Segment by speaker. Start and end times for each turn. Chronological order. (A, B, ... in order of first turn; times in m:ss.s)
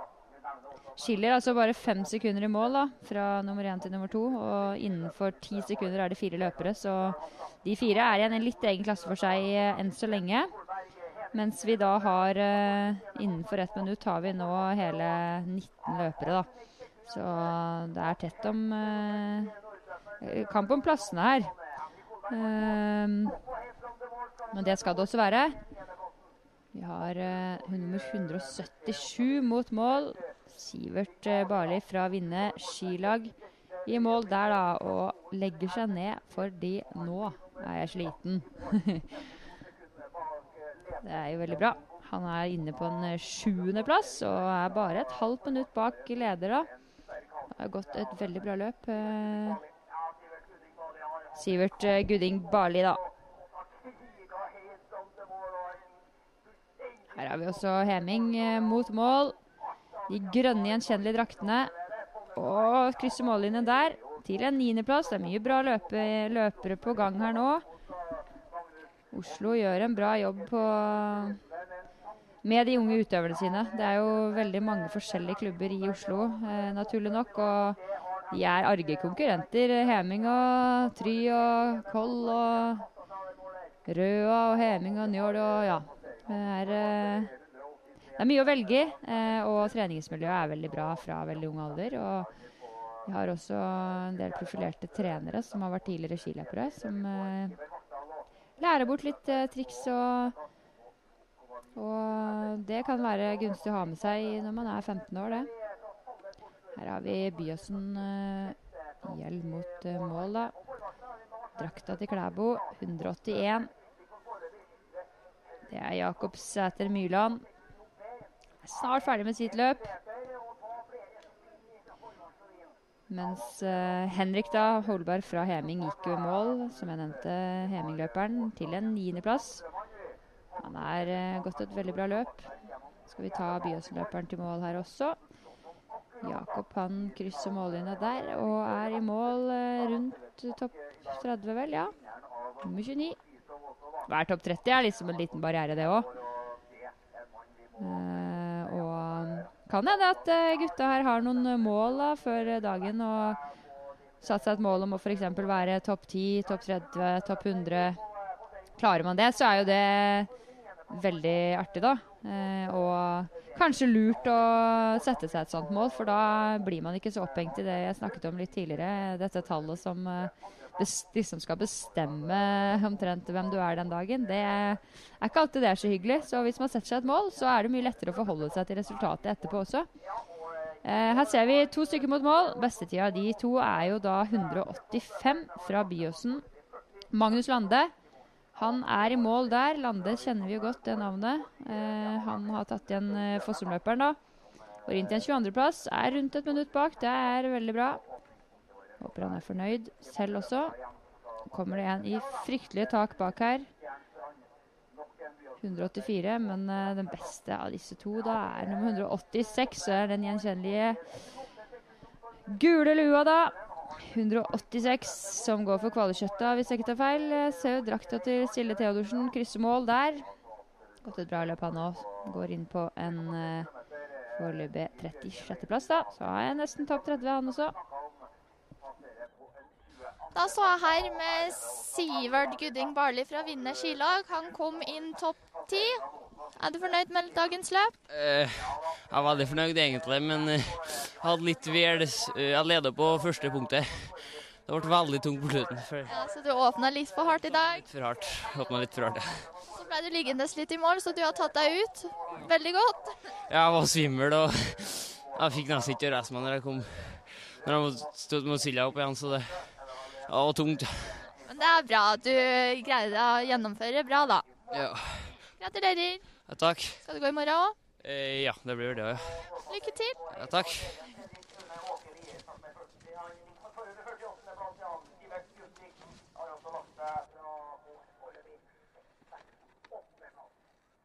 0:01.0-0:10.5 A
0:11.3-0:16.5 A
0:17.0-0:19.6 A
0:20.2-0:21.5 A
0:22.3-0:23.4 A
0:24.5-0:25.6 A
0:26.7-0:33.4 A
0:33.9-0:39.1 A
0:41.0-0:46.7 A
0:47.6-0:49.6 A
0:51.4-0:53.0 A
0:57.1-0:59.4 A
1:00.1-1:01.7 A
1:02.4-1:07.6 A
1:09.1-1:11.4 A
1:12.4-1:17.8 A
1:18.3-1:22.9 A
1:23.9-1:27.4 A
1:28.2-1:32.3 A
1:33.1-1:37.6 A
1:38.6-1:40.4 A
1:41.7-1:45.5 A
1:46.8-1:50.5 A
1:51.6-1:53.7 A
1:55.7-1:57.4 A
1:58.6-2:00.0 A
2:03.1-2:09.6 A
2:10.6-2:12.5 A
2:13.1-2:15.2 A
2:16.2-2:22.0 A
2:22.6-2:23.2 A
2:24.1-2:26.1 A
2:27.8-2:33.4 A
2:34.2-2:38.0 A
2:38.8-2:40.3 A
2:40.9-2:59.9 A
3:00.8-3:06.4 A
3:07.1-3:07.9 A
3:08.6-3:14.2 A
3:14.9-3:18.0 A
3:19.0-3:20.8 A
3:21.5-3:23.7 A
3:25.6-3:31.0 A
3:32.5-3:40.3 A
3:41.0-3:43.7 A
3:44.4-3:47.8 A
3:50.3-3:56.0 B
3:56.6-3:57.9 B
3:58.1-4:06.1 C
4:06.1-4:07.8 B
4:07.9-4:09.5 C
4:09.7-4:13.2 B
4:13.5-4:21.3 C
4:21.5-4:24.4 B
4:24.7-4:25.4 C
4:25.6-4:26.3 B
4:26.5-4:27.0 C
4:27.0-4:27.8 B
4:28.0-4:29.5 C
4:29.7-4:30.2 B
4:30.4-4:31.0 C